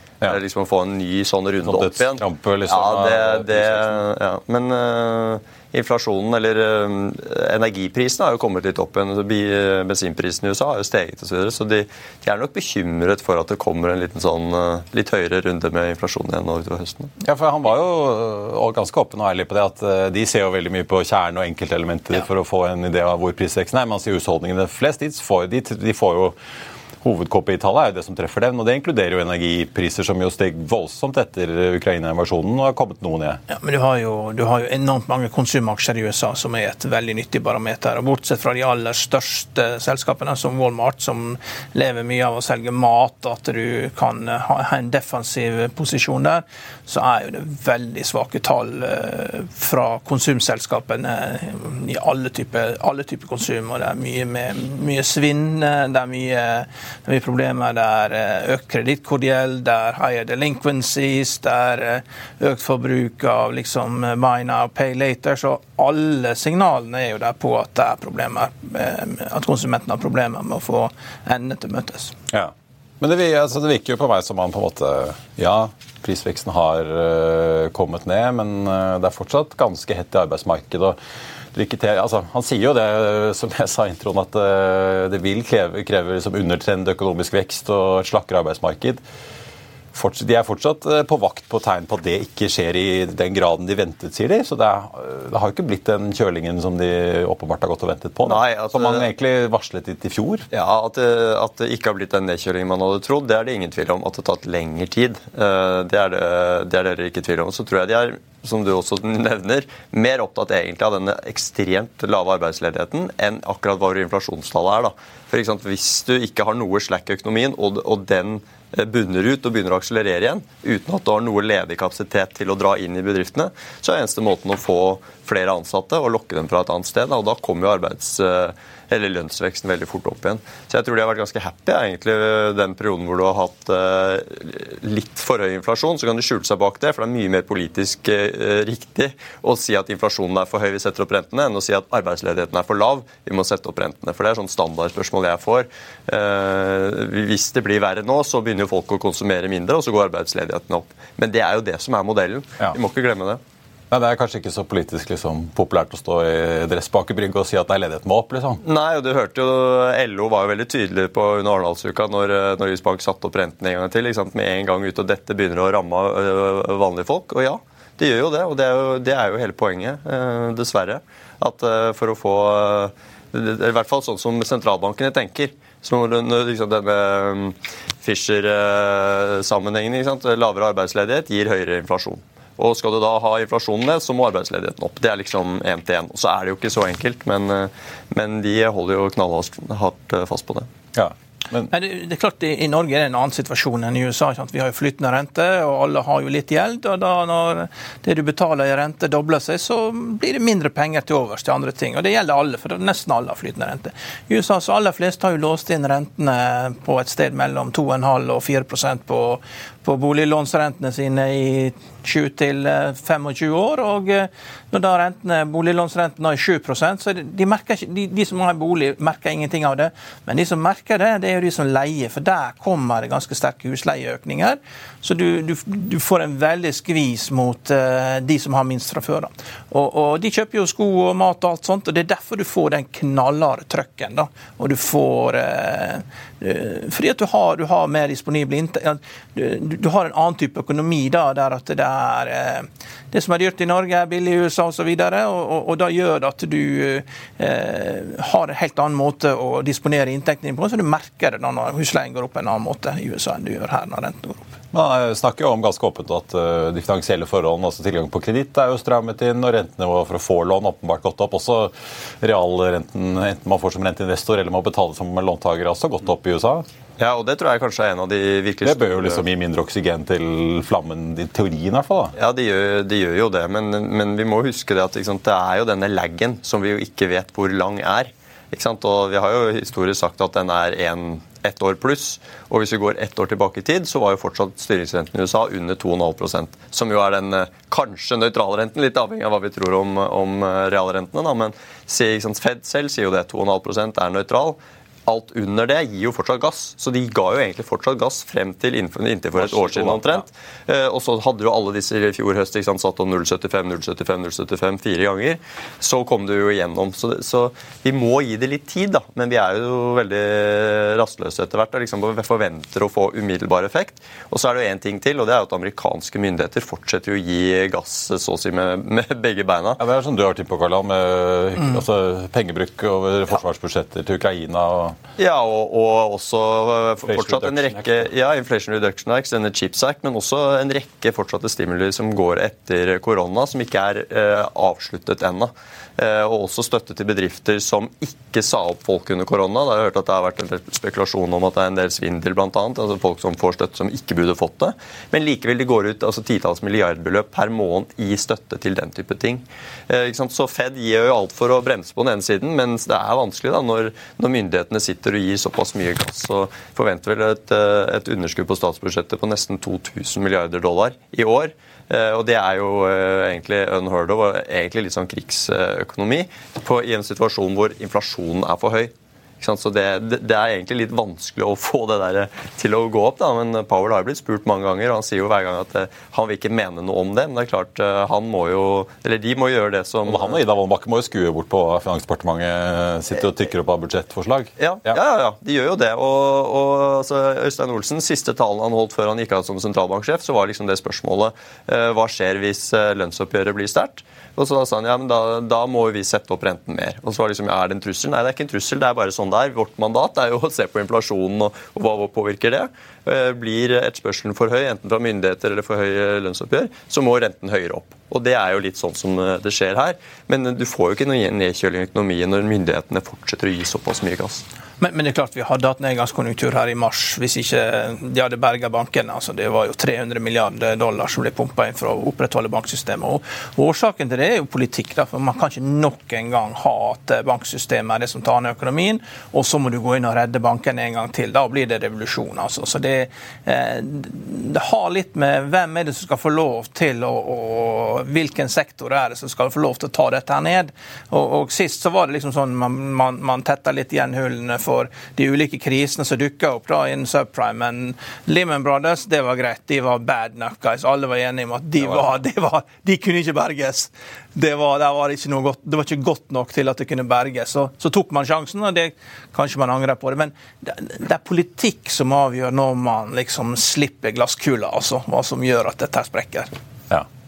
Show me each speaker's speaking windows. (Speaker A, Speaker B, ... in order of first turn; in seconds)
Speaker A: 0.2-17.1, 98.2-99.0, 100.5-153.4, 158.6-190.7, 267.0-269.2, 272.1-319.8, 325.2-380.4, 384.6-414.4
Speaker B: 1.6-4.0, 17.2-26.4, 27.0-33.4, 72.3-81.0, 81.5-89.0, 89.9-100.5, 153.9-158.6, 190.9-191.7, 254.7-266.6, 268.6-272.1, 299.4-300.2, 319.8-324.9, 327.0-328.1, 380.1-385.0
Speaker C: 33.5-72.1, 191.7-254.4, 414.8-466.5